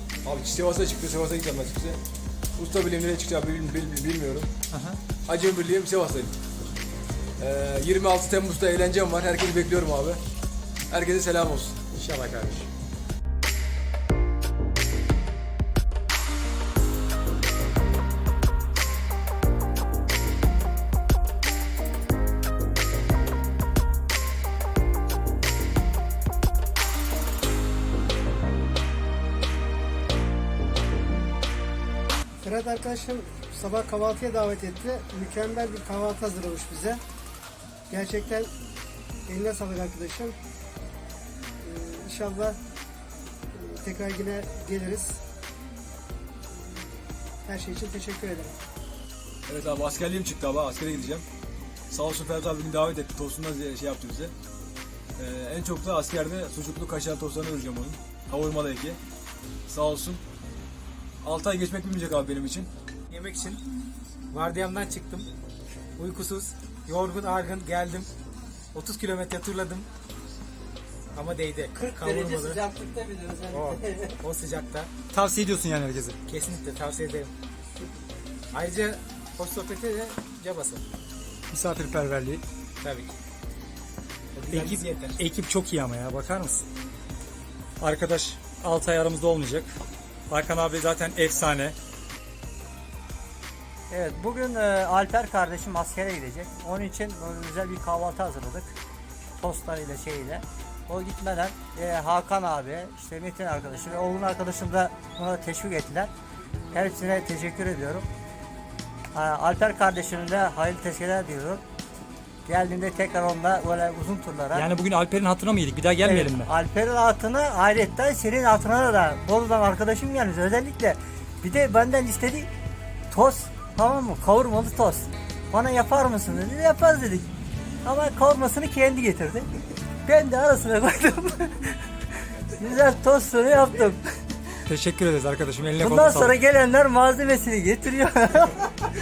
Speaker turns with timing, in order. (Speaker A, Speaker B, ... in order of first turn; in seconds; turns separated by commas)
Speaker A: 0.2-2.0, Speaker A: 2.6-4.5, Speaker B: 4.7-5.0, Speaker A: 5.3-6.3, Speaker A: 7.4-10.2, Speaker A: 10.9-12.7, Speaker B: 12.2-12.5, Speaker C: 32.4-37.0, Speaker C: 37.9-38.5, Speaker C: 39.3-40.4, Speaker C: 41.6-42.6, Speaker C: 43.5-45.2, Speaker C: 47.5-48.5, Speaker A: 49.5-51.3, Speaker A: 51.9-54.3, Speaker A: 55.2-59.0, Speaker A: 59.7-60.2, Speaker A: 61.2-62.7, Speaker D: 63.1-63.6, Speaker D: 64.3-65.3, Speaker D: 66.0-68.1, Speaker D: 68.7-69.9, Speaker D: 71.2-72.6, Speaker E: 71.8-74.2, Speaker D: 73.5-75.0, Speaker B: 75.1-76.2, Speaker D: 76.3-77.3, Speaker D: 78.5-80.8, Speaker B: 81.5-82.4, Speaker D: 82.8-83.1, Speaker D: 84.4-85.2, Speaker B: 84.5-86.7, Speaker B: 87.8-89.8, Speaker B: 90.3-91.8, Speaker E: 93.9-98.8, Speaker E: 99.4-106.1, Speaker E: 106.7-108.1, Speaker E: 109.1-111.6, Speaker E: 112.5-114.7, Speaker B: 114.5-116.5, Speaker E: 116.0-122.5, Speaker E: 123.1-127.3, Speaker E: 127.8-129.5, Speaker E: 130.1-131.8, Speaker E: 132.6-134.0, Speaker B: 134.7-136.3, Speaker E: 135.8-138.7